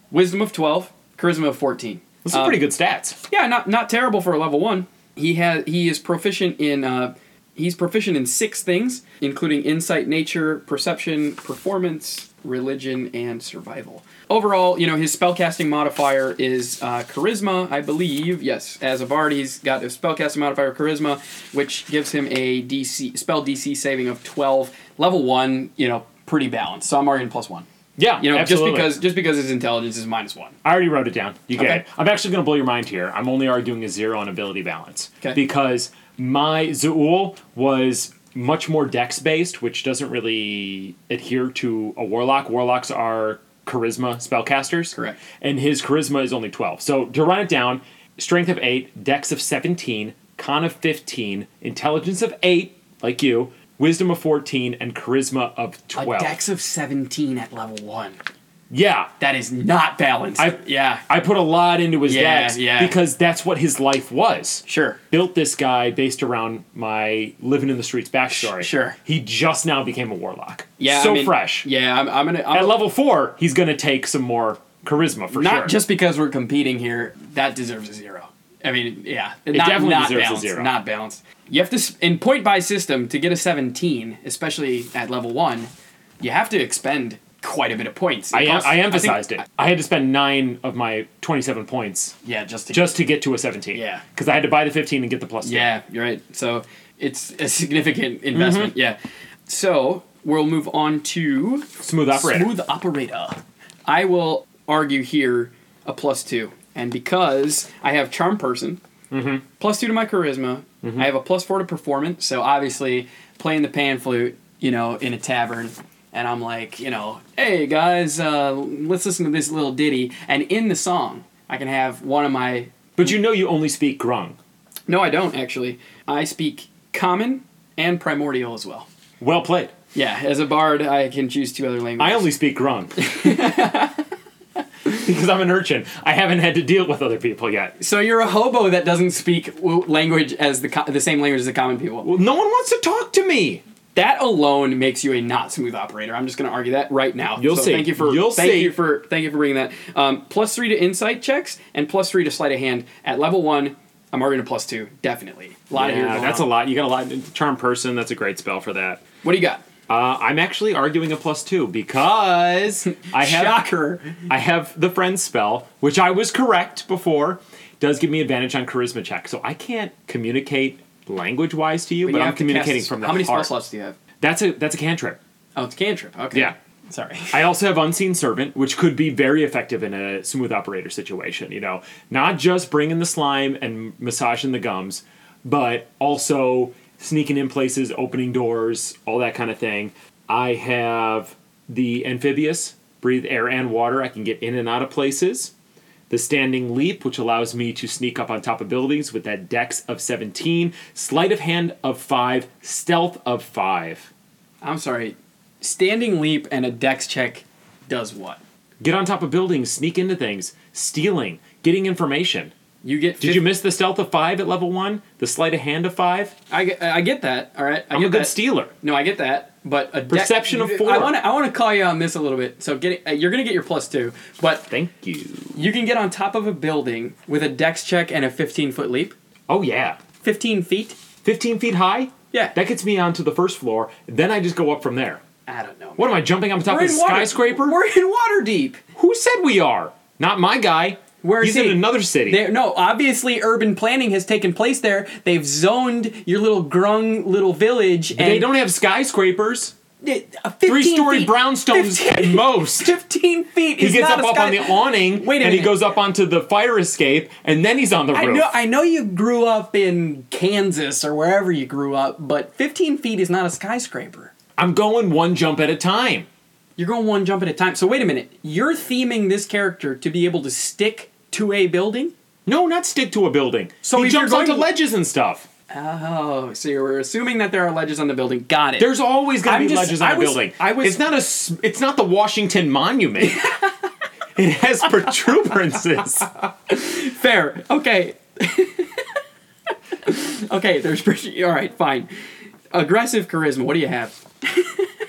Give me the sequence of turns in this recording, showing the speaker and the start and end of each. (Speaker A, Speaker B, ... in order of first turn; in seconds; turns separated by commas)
Speaker A: 0.1-2.6, Speaker B: 2.2-3.2, Speaker A: 3.3-27.7, Speaker B: 28.0-29.0, Speaker A: 28.2-30.6, Speaker B: 30.6-56.4, Speaker A: 31.6-31.8, Speaker A: 45.0-45.2, Speaker A: 56.0-58.2, Speaker B: 58.7-59.1, Speaker A: 59.2-61.0, Speaker B: 60.4-71.7, Speaker A: 62.1-63.0, Speaker A: 64.7-65.0, Speaker A: 68.3-69.0, Speaker A: 70.8-72.8, Speaker B: 72.5-75.8, Speaker A: 75.3-85.7, Speaker B: 79.5-80.7, Speaker A: 86.2-89.4, Speaker B: 88.3-92.2, Speaker A: 92.2-92.9, Speaker B: 92.7-95.7, Speaker A: 93.7-94.0, Speaker A: 95.4-108.8, Speaker B: 98.3-98.7, Speaker B: 101.8-102.5, Speaker B: 109.1-109.4, Speaker A: 109.6-122.8, Speaker B: 110.8-111.1, Speaker B: 123.0-124.4, Speaker A: 124.9-128.9, Speaker B: 129.2-129.7, Speaker A: 129.9-132.3, Speaker B: 132.0-133.5, Speaker A: 133.0-134.0, Speaker B: 134.8-137.8, Speaker A: 137.8-142.1, Speaker B: 142.0-143.6, Speaker A: 143.9-156.5, Speaker B: 147.4-148.8, Speaker B: 155.8-159.0, Speaker A: 159.2-159.6, Speaker B: 159.9-163.6, Speaker A: 163.0-164.2, Speaker B: 164.2-173.5, Speaker A: 172.0-174.0, Speaker B: 174.2-175.2, Speaker A: 175.6-177.4, Speaker B: 177.3-195.5, Speaker B: 196.1-204.1, Speaker A: 204.6-208.4, Speaker B: 208.8-212.5, Speaker A: 212.8-213.5, Speaker B: 213.2-216.4, Speaker A: 216.5-224.7, Speaker B: 217.9-218.7, Speaker B: 220.1-221.2, Speaker B: 224.7-225.6, Speaker A: 225.6-229.1, Speaker B: 229.5-230.0, Speaker A: 230.2-231.0, Speaker B: 231.2-235.2, Speaker A: 235.5-238.8, Speaker B: 236.0-237.8, Speaker B: 239.0-242.4, Speaker A: 241.2-248.5, Speaker B: 248.1-249.8, Speaker A: 250.0-255.8, Speaker B: 250.7-252.9, Speaker B: 253.8-258.5, Speaker A: 258.1-264.3, Speaker B: 264.6-266.3, Speaker A: 266.8-272.1, Speaker B: 272.5-275.5, Speaker A: 273.9-274.7, Speaker A: 275.7-278.9, Speaker B: 278.8-283.5, Speaker A: 279.4-281.0, Speaker A: 283.2-283.7, Speaker B: 284.4-286.3, Speaker A: 286.7-289.1, Speaker A: 290.0-292.1, Speaker A: 292.7-294.9